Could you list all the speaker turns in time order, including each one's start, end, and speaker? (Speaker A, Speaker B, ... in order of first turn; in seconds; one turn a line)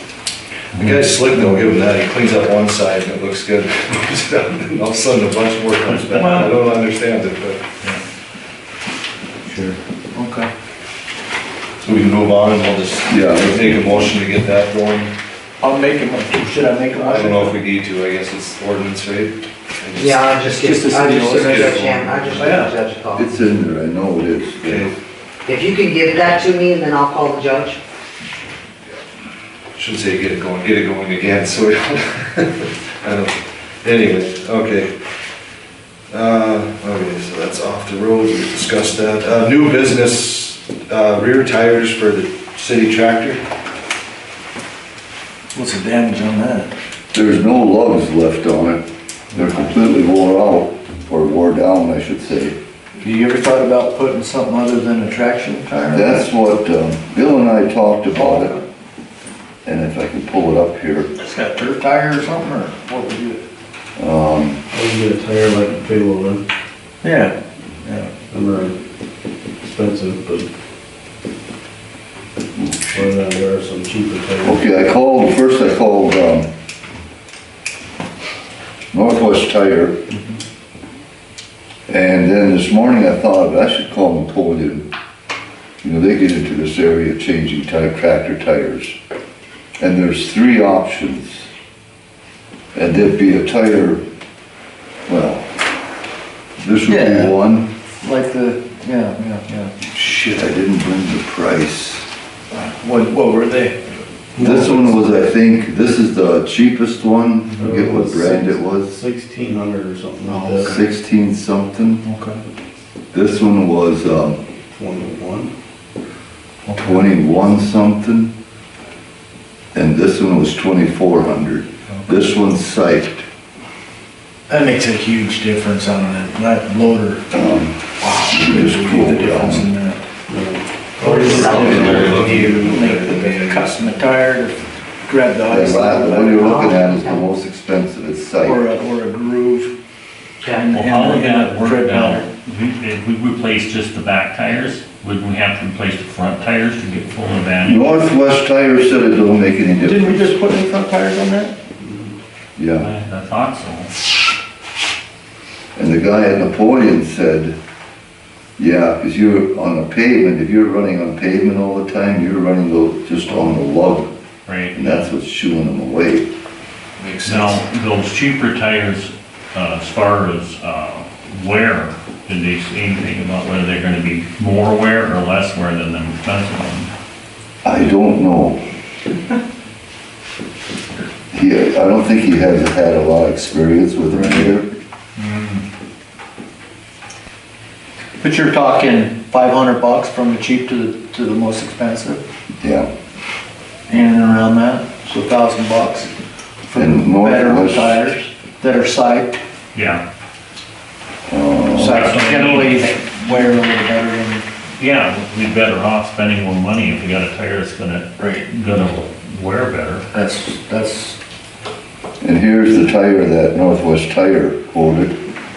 Speaker A: 0.7-7.7
Speaker B: 5.8-6.5
Speaker C: 9.5-10.5
Speaker A: 11.8-15.1
Speaker D: 13.1-14.0
Speaker C: 15.6-17.5
Speaker A: 16.9-20.4
Speaker E: 20.0-23.3
Speaker C: 20.6-21.8
Speaker A: 21.4-22.5
Speaker C: 22.4-22.7
Speaker D: 23.1-24.9
Speaker A: 24.6-24.9
Speaker E: 25.5-27.8
Speaker A: 29.7-34.9
Speaker A: 36.1-43.4
Speaker C: 45.5-46.7
Speaker D: 47.1-52.6
Speaker C: 53.0-56.3
Speaker D: 55.9-58.6
Speaker C: 58.1-58.6
Speaker D: 59.6-61.1
Speaker C: 61.2-63.4
Speaker D: 64.0-64.6
Speaker F: 64.7-66.4
Speaker C: 67.0-68.1
Speaker F: 68.3-68.7
Speaker F: 69.6-70.5
Speaker D: 72.6-73.0
Speaker F: 72.9-74.7
Speaker D: 74.4-76.5
Speaker D: 78.9-80.0
Speaker D: 81.9-84.9
Speaker D: 85.8-89.0
Speaker D: 89.8-91.5
Speaker D: 92.7-94.0
Speaker D: 95.1-95.5
Speaker D: 96.6-97.7
Speaker C: 96.9-97.3
Speaker C: 98.0-99.7
Speaker D: 99.9-102.1
Speaker C: 102.5-103.8
Speaker C: 104.3-105.0
Speaker D: 104.4-109.0
Speaker F: 107.6-110.8
Speaker C: 110.3-110.8
Speaker D: 110.6-112.0
Speaker C: 112.0-112.4
Speaker D: 113.1-114.4
Speaker F: 114.7-115.5
Speaker C: 116.7-117.1
Speaker D: 116.7-118.3
Speaker D: 119.7-123.2
Speaker C: 121.9-122.2
Speaker C: 124.5-127.3
Speaker D: 127.3-129.7
Speaker C: 128.0-130.0
Speaker F: 130.3-134.1
Speaker C: 131.0-136.6
Speaker E: 131.2-132.1
Speaker D: 131.4-132.3
Speaker A: 132.0-133.1
Speaker D: 135.5-138.7
Speaker E: 136.2-137.2
Speaker C: 138.4-139.7
Speaker C: 140.6-142.2
Speaker B: 140.6-148.0
Speaker D: 147.6-150.3
Speaker C: 149.8-151.5
Speaker F: 151.8-152.2
Speaker D: 152.6-152.9
Speaker B: 152.8-153.9
Speaker D: 155.8-157.6
Speaker D: 158.6-164.1
Speaker C: 163.3-163.6
Speaker B: 164.4-165.1
Speaker D: 164.7-166.3
Speaker C: 167.0-167.6
Speaker B: 167.2-176.9
Speaker D: 177.6-178.6
Speaker D: 181.3-184.7
Speaker C: 184.1-184.5
Speaker C: 185.2-185.6
Speaker C: 188.2-192.2
Speaker D: 192.6-192.9
Speaker C: 193.9-196.1
Speaker C: 196.6-199.4
Speaker D: 196.7-198.2
Speaker B: 199.7-200.0
Speaker D: 201.3-202.1
Speaker C: 201.8-204.4
Speaker B: 201.8-202.8
Speaker B: 204.8-210.1
Speaker C: 208.2-208.5
Speaker C: 210.1-211.2
Speaker D: 212.2-215.2